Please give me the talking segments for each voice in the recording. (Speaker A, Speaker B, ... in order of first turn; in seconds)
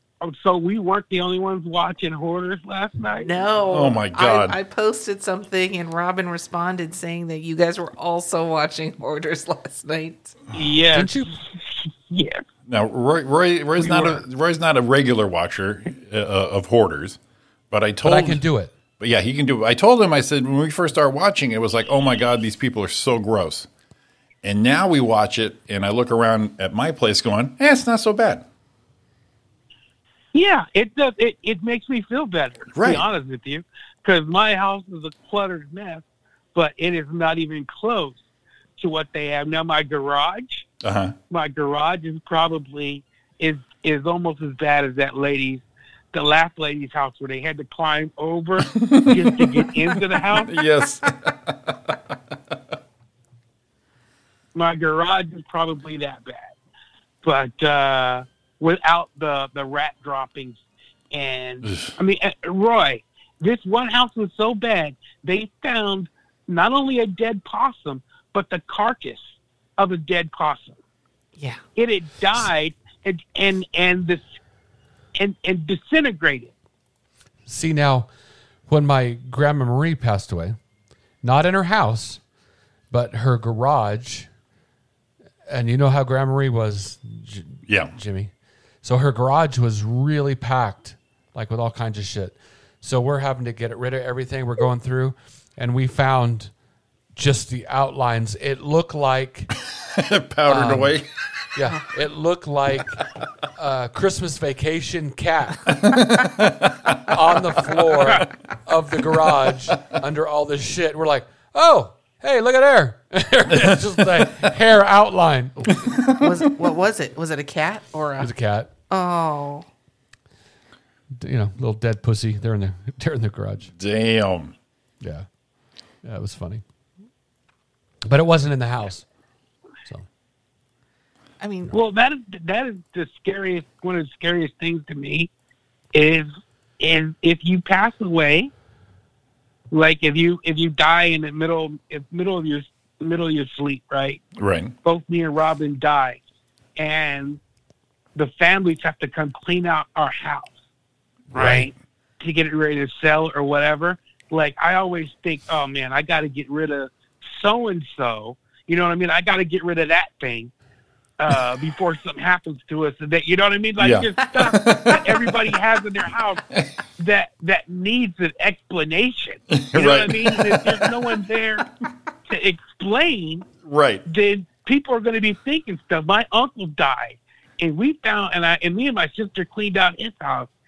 Speaker A: 0.2-3.3, 10.5-12.4, 30.3-38.2, 38.8-40.6, 41.3-50.5, 54.5-56.5, 57.2-69.2, 69.8-70.8, 71.8-74.2, 75.1-76.5, 131.7-135.3, 135.9-138.5, 139.7-144.2, 144.8-146.2, 146.8-147.4, 148.1-150.5, 151.3-160.5, 161.2-166.4, 167.0-171.6, 172.3-173.4, 174.1-180.5
Speaker B: 3.2-10.4, 71.4-71.6, 115.7-118.3, 118.9-119.7, 131.4-131.7
Speaker C: 3.7-4.6, 12.7-17.2, 17.7-18.4, 19.0-23.7, 24.4-28.4, 32.7-33.0, 40.8-41.1, 48.7-52.0, 61.6-61.9, 87.7-88.0, 99.6-101.1, 105.7-107.1, 113.5-114.5, 115.8-116.3, 123.7-124.5, 144.3-144.7, 151.3-151.7, 163.8-165.5, 169.5-171.2, 173.6-174.0
Speaker D: 10.9-11.4, 18.0-18.7, 77.5-78.1, 78.7-80.6, 81.2-82.2, 82.9-84.3, 85.5-88.3, 88.8-96.5, 97.1-99.5, 100.5-101.0, 101.5-103.0, 103.5-105.8, 107.1-115.8, 118.2-118.7, 121.1-123.7, 125.0-125.2, 126.0-126.6, 128.0-129.1